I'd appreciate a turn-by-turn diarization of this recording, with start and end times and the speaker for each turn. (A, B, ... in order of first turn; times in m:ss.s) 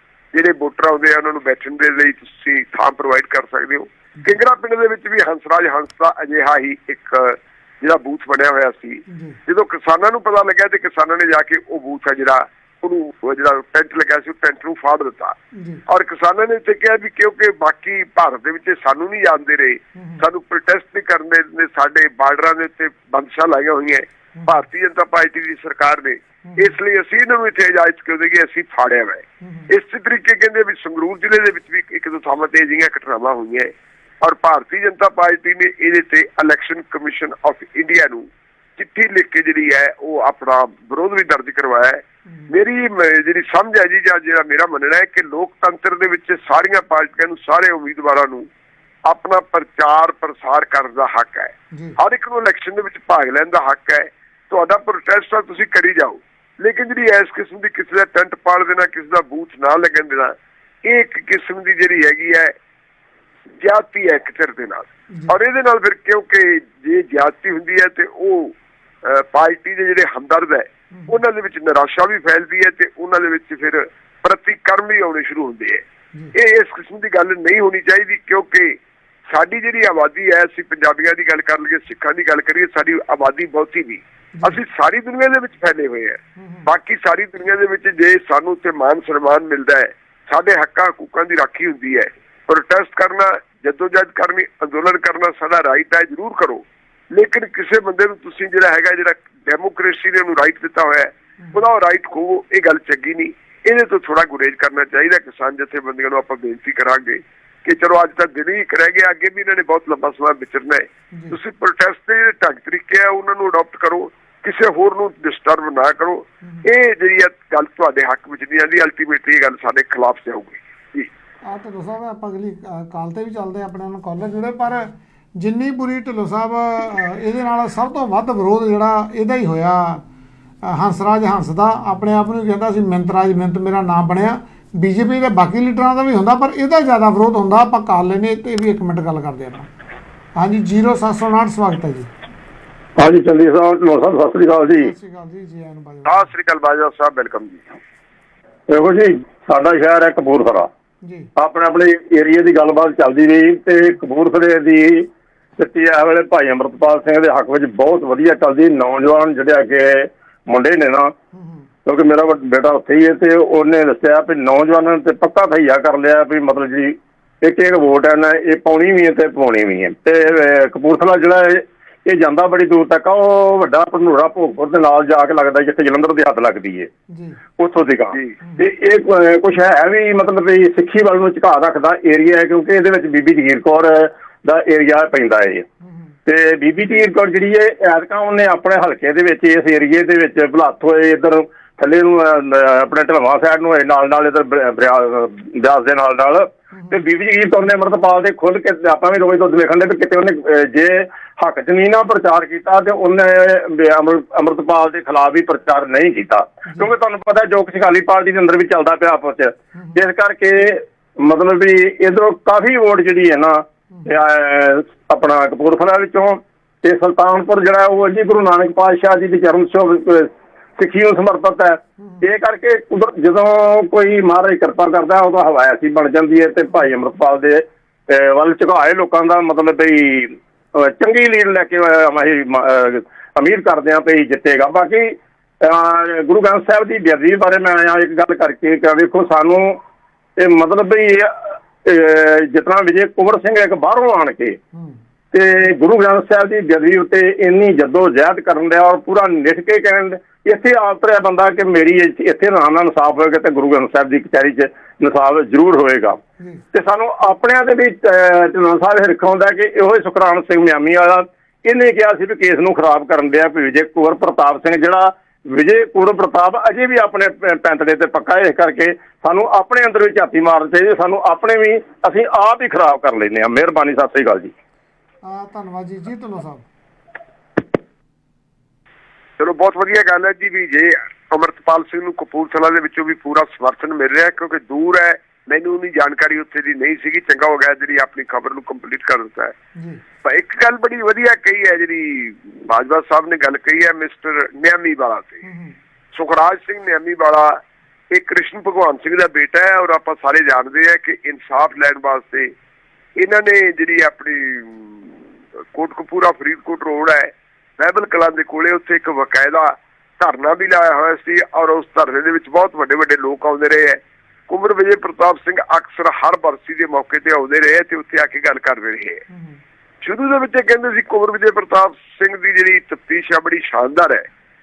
0:00.3-0:15.4 A
0:09.1-0:09.4 B
0:15.6-0:15.8 B
0:15.9-0:33.7 A
0:20.0-0:20.2 B
0:26.4-0:26.8 B
0:29.4-0:29.7 B
0:34.2-0:48.5 A
0:49.1-1:02.5 A
0:51.7-0:52.0 B
1:03.6-1:18.8 A
1:10.9-1:11.2 B
1:19.3-2:01.1 A
1:26.4-1:26.7 B
1:56.4-1:56.7 B
2:01.5-2:10.0 B
2:10.6-2:19.7 B
2:20.4-2:22.1 B
2:23.0-2:24.9 C
2:24.8-2:26.3 B
2:26.1-2:27.7 A
2:28.7-2:30.7 C
2:31.0-2:31.3 B
2:31.4-2:41.1 C
2:41.3-2:41.7 B
2:41.8-2:56.9 C
2:57.1-2:57.4 B
2:57.6-3:05.7 C
2:58.4-2:58.7 B
3:05.8-3:06.1 B
3:06.3-3:59.8 C
3:16.7-3:17.0 B
3:26.7-3:26.9 B
3:29.8-3:30.0 B
3:33.9-3:34.2 B
3:42.0-3:42.3 B
4:00.4-4:04.6 C
4:05.3-4:16.2 C
4:16.4-4:16.6 B
4:16.7-4:34.5 C
4:35.2-4:36.6 B
4:39.4-4:49.5 A
4:50.2-4:55.4 A
4:55.4-4:55.8 B
4:56.1-4:57.6 A
4:58.1-5:02.5 A
5:03.2-5:05.1 A
5:05.7-5:19.2 A
5:19.3-5:19.6 B
5:20.0-5:24.3 A